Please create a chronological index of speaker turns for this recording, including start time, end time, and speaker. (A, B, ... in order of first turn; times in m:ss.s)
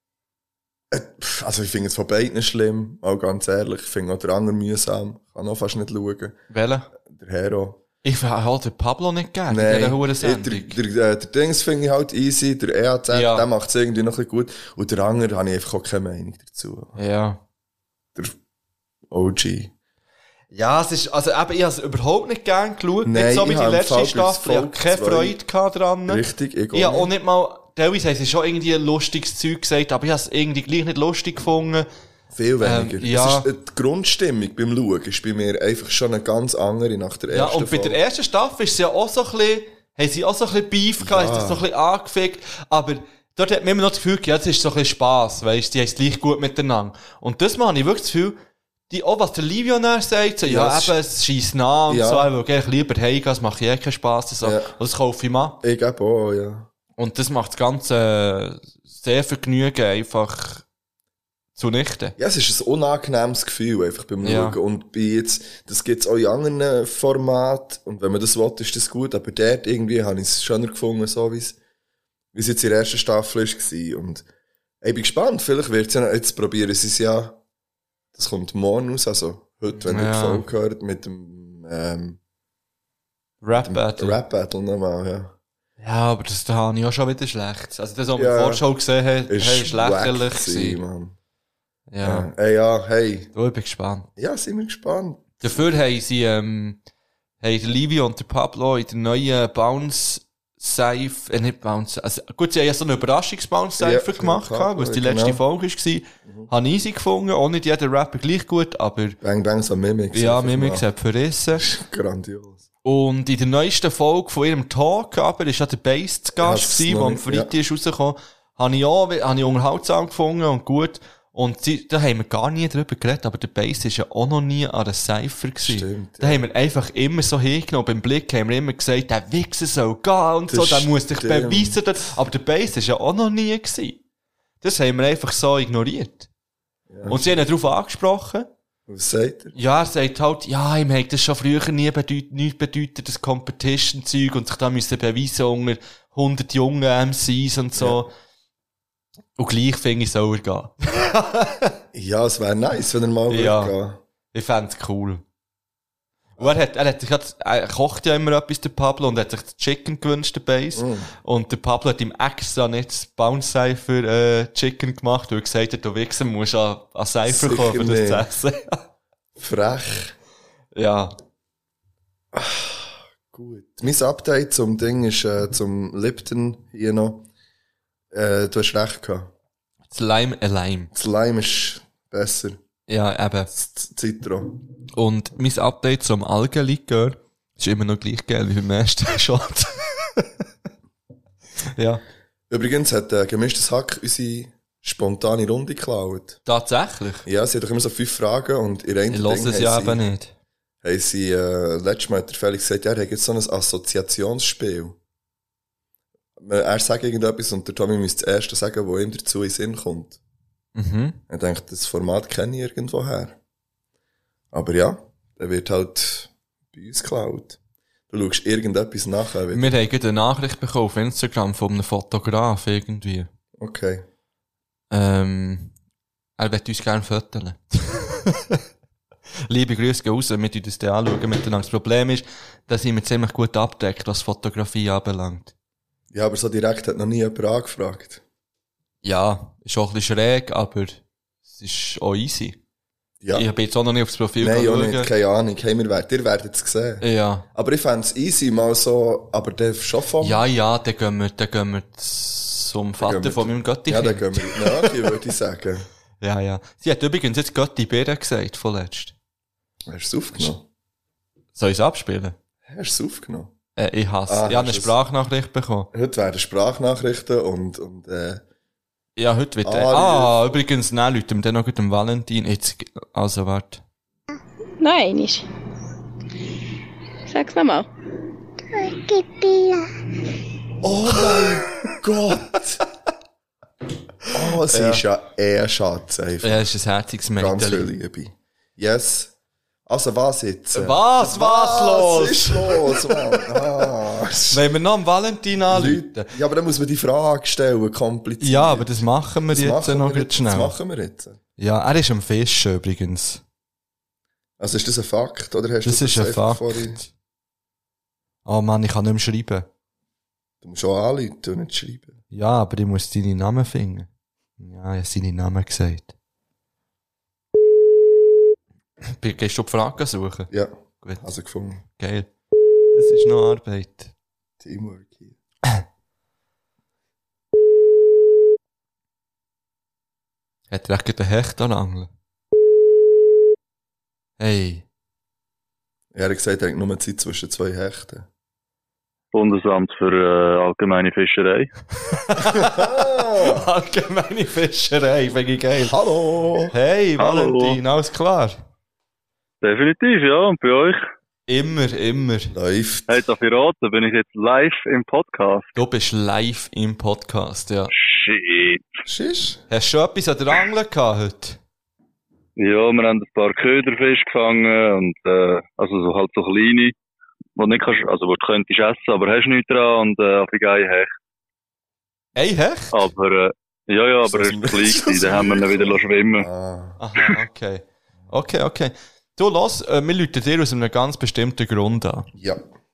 0:00.9-0:06.4 A
0:06.5-0:06.9 B
0:07.0-0:07.8 A
0:08.0-0:10.8 B
0:09.5-0:17.0 A
0:13.1-0:13.5 B
0:17.0-0:17.4 B
0:19.1-0:19.7 A
0:20.5-0:31.9 B
0:23.0-0:25.4 A
0:26.1-0:27.1 A
0:32.3-0:38.0 A
0:32.6-0:33.5 B
0:37.3-0:48.4 B
0:41.0-0:41.6 A
0:48.9-0:55.6 B
0:50.4-0:51.0 A
0:51.9-0:52.3 A
0:54.4-0:54.7 A
0:55.6-0:56.7 A
0:57.0-1:00.6 B
1:01.6-1:02.1 B
1:02.2-1:11.6 A
1:04.2-1:04.6 B
1:12.3-1:14.2 A
1:14.8-1:17.4 A
1:18.1-1:22.2 A
1:19.9-1:20.4 B
1:23.4-1:24.2 B
1:23.6-1:25.3 A
1:25.8-1:30.8 B
1:28.1-1:28.7 A
1:29.3-1:31.2 A
1:31.9-1:32.3 B
1:32.0-1:33.3 A
1:33.3-1:34.1 B
1:34.2-1:35.4 A
1:35.4-1:36.8 B
1:37.4-1:49.2 B
1:43.8-1:45.4 A
1:49.2-1:50.9 A
1:50.1-1:51.7 B
1:51.6-1:52.6 A
1:52.8-2:14.0 B
1:56.4-1:57.5 A
2:05.6-2:06.4 A
2:10.5-2:11.8 A
2:14.6-2:16.3 B
2:16.9-2:17.4 A
2:17.1-2:18.5 B
2:18.9-2:19.6 A
2:19.6-2:28.1 B
2:27.8-2:28.0 A
2:29.4-2:31.7 B
2:31.9-2:34.0 A
2:33.3-2:33.7 B
2:34.3-2:35.2 B
2:36.4-2:48.8 B
2:40.7-2:41.1 A
2:47.3-2:48.3 A
2:49.4-2:50.1 A
2:50.7-2:51.1 B
2:52.3-2:57.3 A
2:58.1-2:59.3 A
2:59.9-3:00.9 B
3:00.9-3:02.6 A
3:02.9-3:03.5 B
3:03.5-3:04.6 A
3:05.0-3:10.3 B
3:11.8-3:12.0 B
3:12.5-3:16.4 A
3:16.4-3:17.2 B
3:17.3-3:20.0 A
3:19.1-3:20.3 B
3:20.8-3:25.0 A
3:26.4-3:30.2 A
3:30.8-3:31.2 B
3:31.3-3:33.4 A
3:34.5-3:37.6 A
3:38.1-3:39.7 A
3:39.5-3:43.3 B
3:43.6-3:44.0 A
3:44.9-3:45.7 B
3:46.4-3:48.6 B
3:49.5-3:55.5 B
3:56.1-3:58.2 A
3:59.0-4:02.6 B
4:03.3-4:05.1 B
4:04.4-4:10.4 A
4:07.0-4:07.4 B
4:10.2-4:15.0 B
4:13.0-4:15.9 A
4:16.2-4:19.1 B
4:19.9-4:20.6 A
4:21.6-4:22.4 B
4:22.6-4:23.5 A
4:23.8-4:25.9 B
4:24.3-4:25.0 A
4:25.9-4:28.4 A
4:29.2-4:33.8 B
4:29.6-4:30.6 A
4:34.8-4:35.4 C
4:37.3-4:37.9 C
4:38.7-4:39.9 C
4:40.8-4:42.8 A
4:44.3-4:46.6 A
4:44.7-4:45.0 B
4:46.4-4:47.9 B
4:47.4-4:49.3 A
4:49.9-4:54.6 A
4:50.7-4:53.6 B
4:54.5-4:56.3 B
4:55.7-5:01.4 A
4:58.4-5:00.7 B
5:01.6-5:03.4 B
5:04.6-5:07.0 A
5:05.8-5:07.1 B
5:08.4-5:09.7 B
5:10.6-5:12.2 A
5:12.3-5:14.1 B
5:14.6-5:16.1 B
5:19.1-5:20.5 B
5:20.5-5:21.8 A
5:21.8-5:22.3 B
5:22.9-5:24.1 B
5:24.6-5:25.4 A
5:30.7-5:32.1 B
5:34.4-5:34.8 B
5:36.1-5:38.3 A
5:39.3-5:41.7 D
5:42.2-5:45.9 B
5:42.5-5:43.7 A
5:45.8-5:46.7 A
5:46.7-5:48.6 B
5:47.2-5:47.8 D
5:49.6-5:51.0 D
5:51.5-5:52.5 B
5:52.5-5:53.2 A
5:53.1-5:55.7 D
5:55.7-5:57.9 B
5:58.0-5:58.9 D
5:59.1-5:59.6 A
5:59.7-6:01.6 B
6:02.6-6:06.9 D
6:07.6-6:11.1 D
6:12.4-6:13.0 B
6:12.9-6:16.5 D
6:14.3-6:17.0 A
6:17.0-6:22.3 B
6:22.3-6:22.6 A